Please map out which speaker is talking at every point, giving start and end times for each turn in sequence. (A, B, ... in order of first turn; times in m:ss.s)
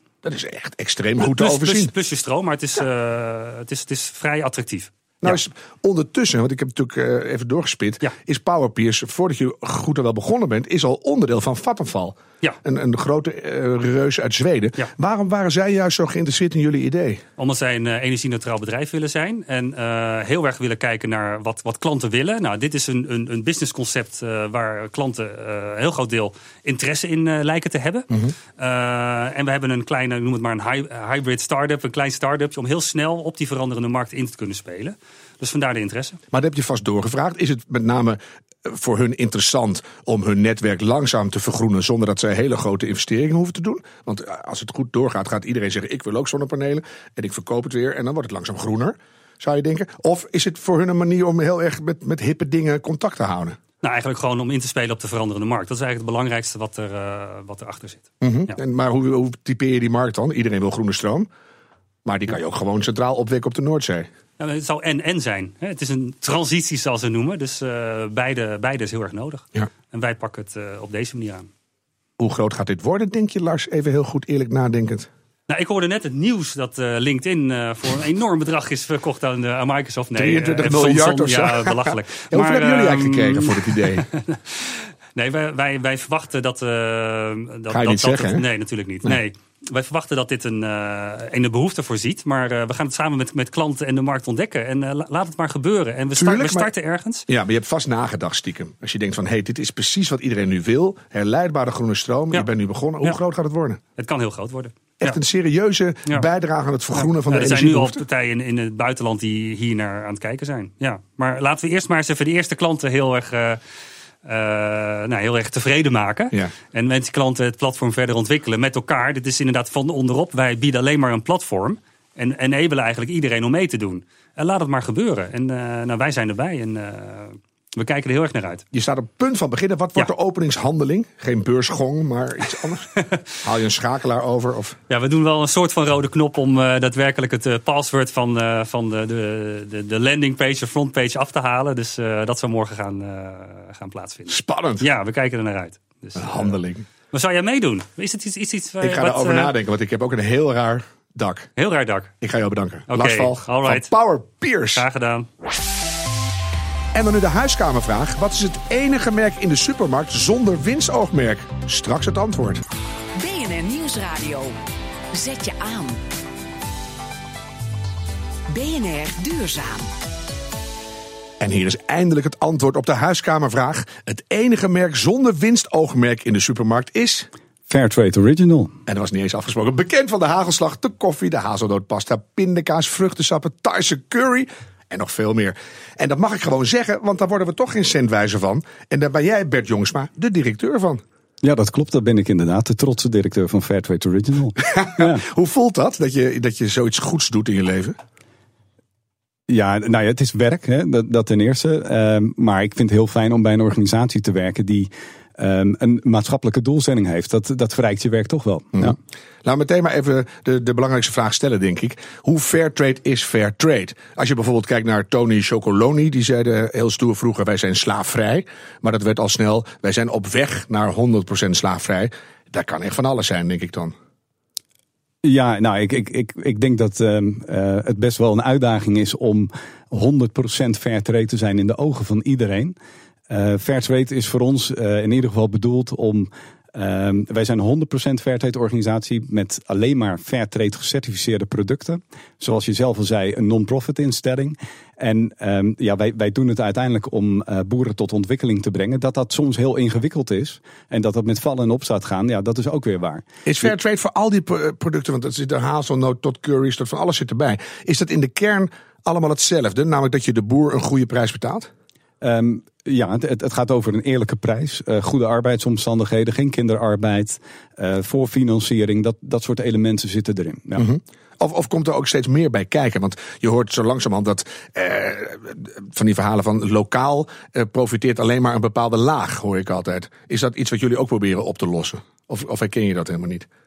0:00.2-0:01.9 A
0:01.2-0:05.4 B
0:05.2-0:17.2 A
0:17.4-0:36.2 B
0:36.3-0:53.6 A
0:53.8-0:58.5 B
0:58.2-1:01.3 A
1:02.0-1:04.1 A
1:04.4-1:11.5 B
1:12.2-1:15.1 A
1:15.5-1:37.3 B
1:20.2-1:24.1 A
1:27.7-1:28.4 A
1:36.2-1:36.7 A
1:37.3-1:43.8 A
1:44.0-1:45.2 B
1:45.0-1:48.0 A
1:47.0-1:53.6 B
1:54.2-2:08.6 B
2:08.7-2:14.8 A
2:14.9-2:26.6 B
2:24.3-2:24.9 A
2:26.2-2:26.9 A
2:27.1-2:29.6 B
2:28.8-2:31.5 A
2:31.6-2:32.1 B
2:32.2-2:34.8 A
2:32.9-2:33.9 B
2:34.7-2:35.3 B
2:36.9-2:42.6 A
2:43.2-2:44.6 C
2:45.1-2:46.0 C
2:48.5-2:49.9 C
2:51.4-2:57.3 A
2:57.7-2:58.7 D
2:58.9-3:11.0 A
3:11.4-3:15.2 D
3:14.7-3:18.0 A
3:19.5-3:29.0 D
3:28.8-3:43.9 A
3:45.2-3:52.8 D
3:53.3-4:13.2 D
4:13.5-4:21.7 A
4:22.2-4:30.9 D
4:30.8-4:43.5 A